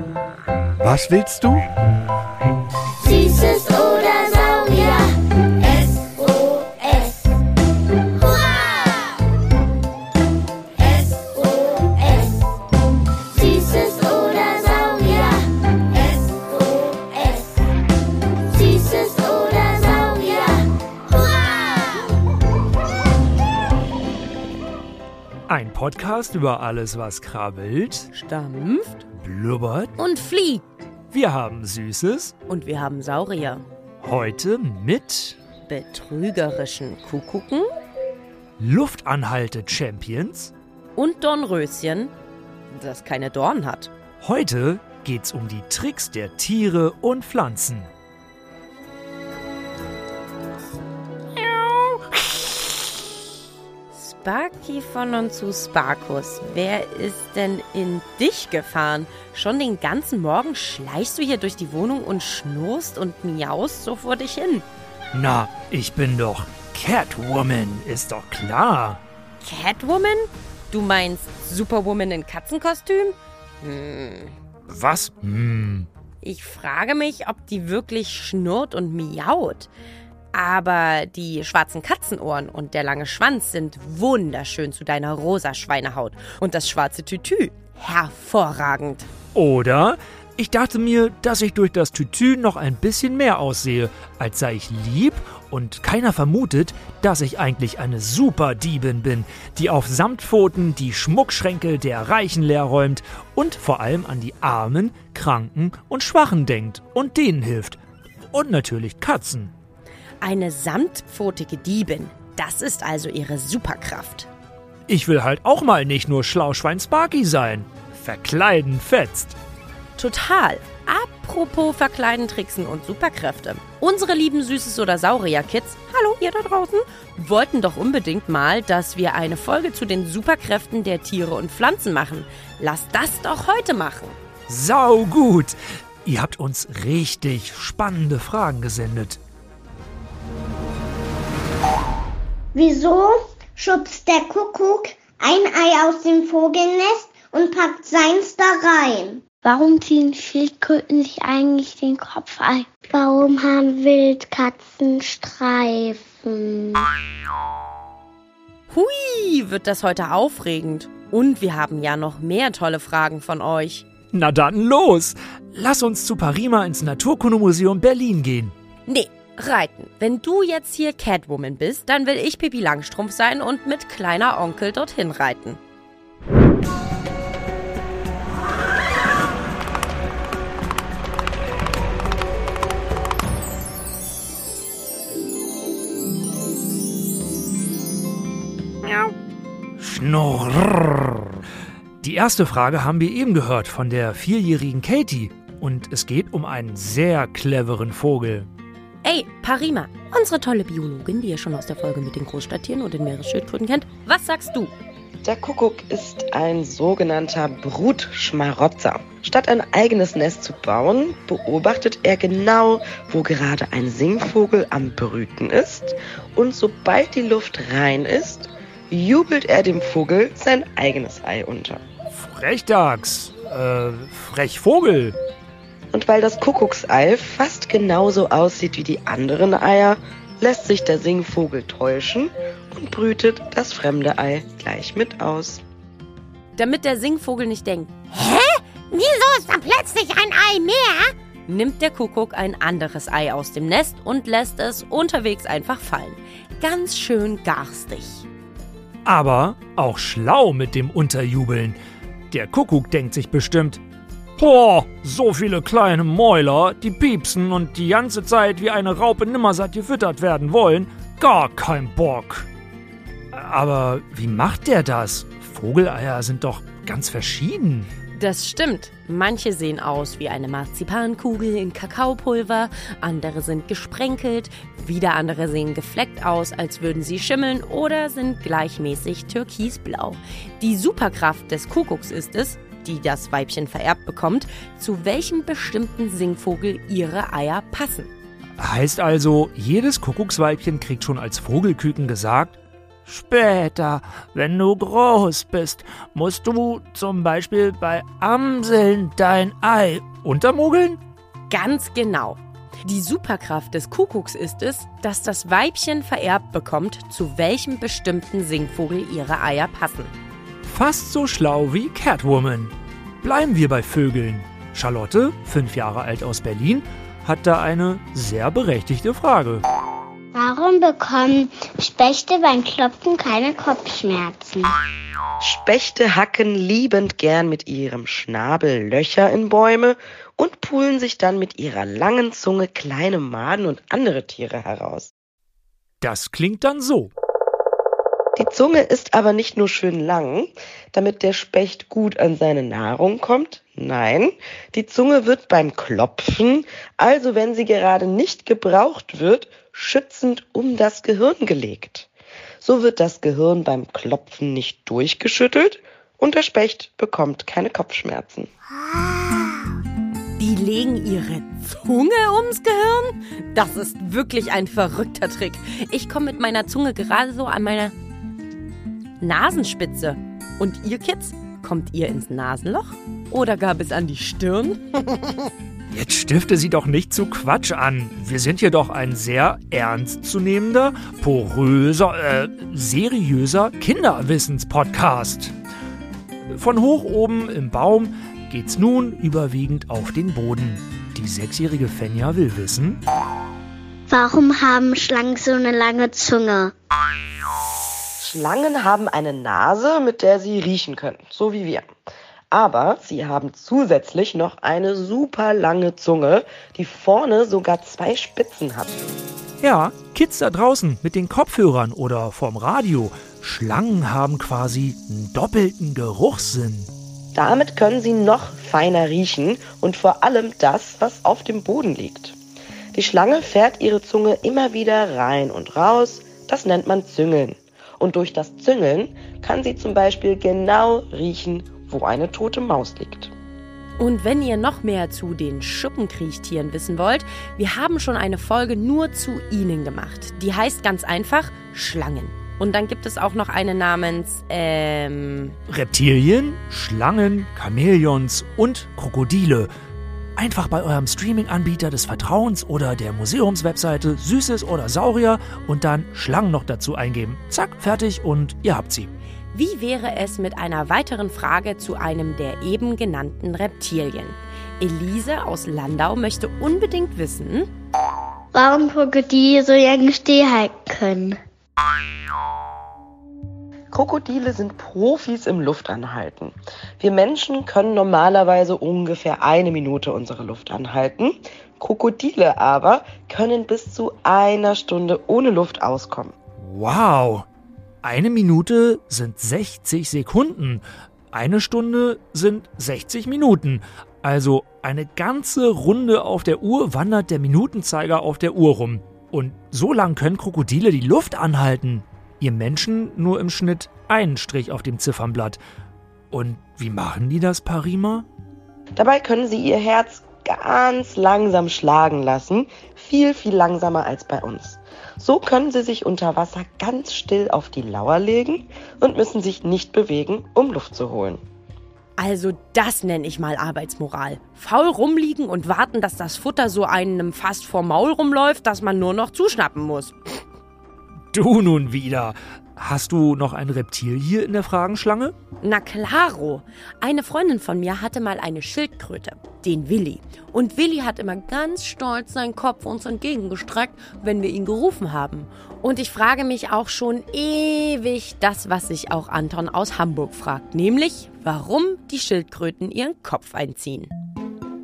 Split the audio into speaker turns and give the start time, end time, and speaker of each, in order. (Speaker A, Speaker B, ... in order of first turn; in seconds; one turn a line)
Speaker A: 0.8-1.6
Speaker B: 3.0-7.3
Speaker B: 8.1-9.2
Speaker B: 10.8-12.4
Speaker B: 13.2-17.6
Speaker B: 18.5-21.4
Speaker A: 25.5-28.1
Speaker C: 28.1-29.0
Speaker A: 29.2-29.9
Speaker C: 30.0-30.6
Speaker A: 31.1-32.3
Speaker C: 32.5-33.6
Speaker A: 34.0-35.4
Speaker C: 35.7-37.7
Speaker A: 38.6-40.5
Speaker C: 41.0-42.1
Speaker C: 42.7-43.9
Speaker A: 44.2-47.9
Speaker A: 51.4-52.4
Speaker C: 53.9-64.7
Speaker A: 65.1-69.0
Speaker C: 69.4-74.3
Speaker A: 74.7-75.9
Speaker C: 76.2-79.7
Speaker C: 80.3-89.1
Speaker A: 89.3-107.8
Speaker A: 108.3-109.5
Speaker C: 110.2-114.3
Speaker A: 114.9-119.4
Speaker C: 120.0-134.2
Speaker A: 134.5-139.2
Speaker B: 142.6-156.9
Speaker C: 158.7-163.8
Speaker A: 164.1-168.5
Speaker C: 168.9-175.6
Speaker A: 188.8-189.1
Speaker A: 189.8-191.5
Speaker A: 192.0-198.5
Speaker C: 199.0-204.7
Speaker D: 205.2-221.8
Speaker A: 222.1-225.2
Speaker D: 225.9-235.6
Speaker C: 236.6-248.3
Speaker A: 249.1-251.8
Speaker A: 252.3-253.8
Speaker A: 254.4-262.5
Speaker A: 263.3-267.9
Speaker C: 268.1-288.1
Speaker A: 288.6-301.0
Speaker C: 301.5-310.1
Speaker A: 310.6-319.6
Speaker B: 320.3-324.7
Speaker D: 325.4-335.1
Speaker A: 336.0-337.1
Speaker D: 338.4-352.1
Speaker D: 352.6-358.5
Speaker C: 360.4-367.9
Speaker C: 369.2-375.5
Speaker A: 375.9-385.6
Speaker A: 386.5-393.0
Speaker B: 394.1-396.7
Speaker D: 398.2-401.9
Speaker D: 402.5-409.0
Speaker A: 409.6-416.9
Speaker D: 417.4-422.4
Speaker D: 422.9-433.3
Speaker C: 434.0-445.6
Speaker A: 445.7-449.7
Speaker A: 450.4-459.1
Speaker C: 459.5-467.7
Speaker B: 468.5-471.4
Speaker D: 473.9-486.3
Speaker A: 486.6-487.5
Speaker A: 488.0-505.6
Speaker A: 506.3-508.3
Speaker D: 509.0-521.4
Speaker C: 522.2-530.4
Speaker A: 531.3-535.4
Speaker C: 535.6-554.1